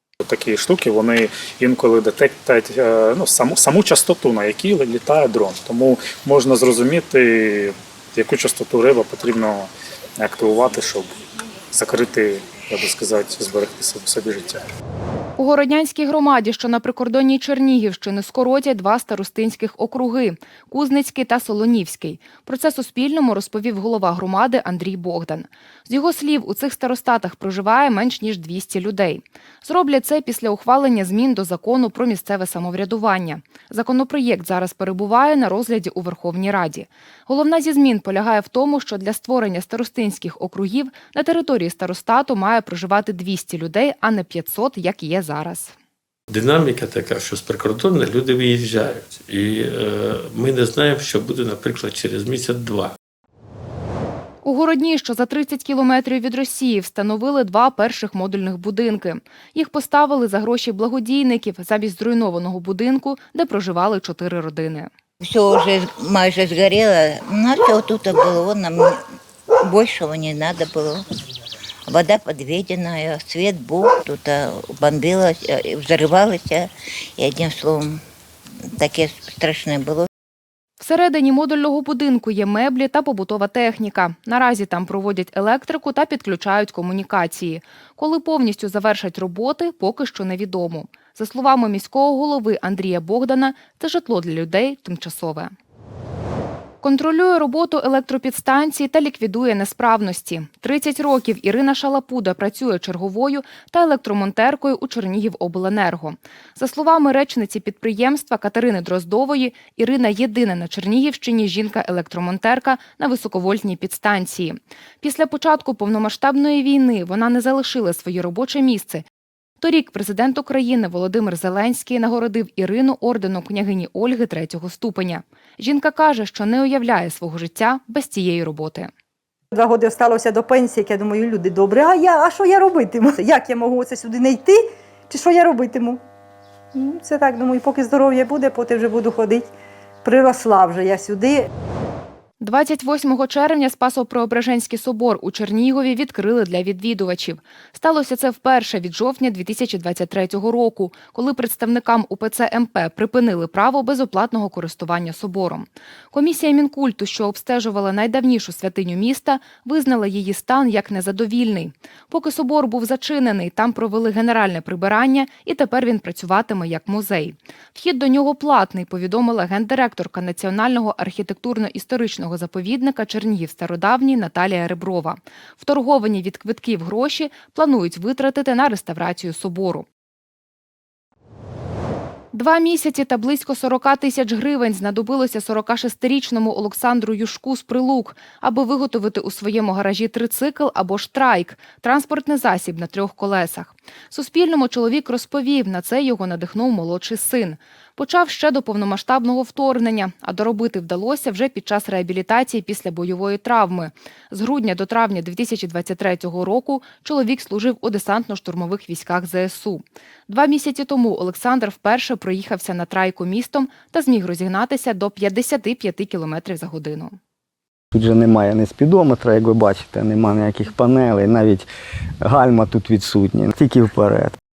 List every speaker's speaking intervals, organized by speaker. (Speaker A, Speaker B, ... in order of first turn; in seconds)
Speaker A: 0.3-11.1, 11.7-14.6
Speaker B: 15.4-45.7, 54.4-64.9, 80.8-95.5, 96.8-119.1, 119.6-128.9, 142.4-179.9, 182.3-217.2
Speaker C: 46.3-53.0
Speaker D: 65.2-69.0, 69.6-71.0, 71.9-78.0, 78.8-80.1
Speaker E: 129.5-136.0, 136.8-139.5, 140.0-141.4
Speaker F: 217.9-221.7, 222.2-224.3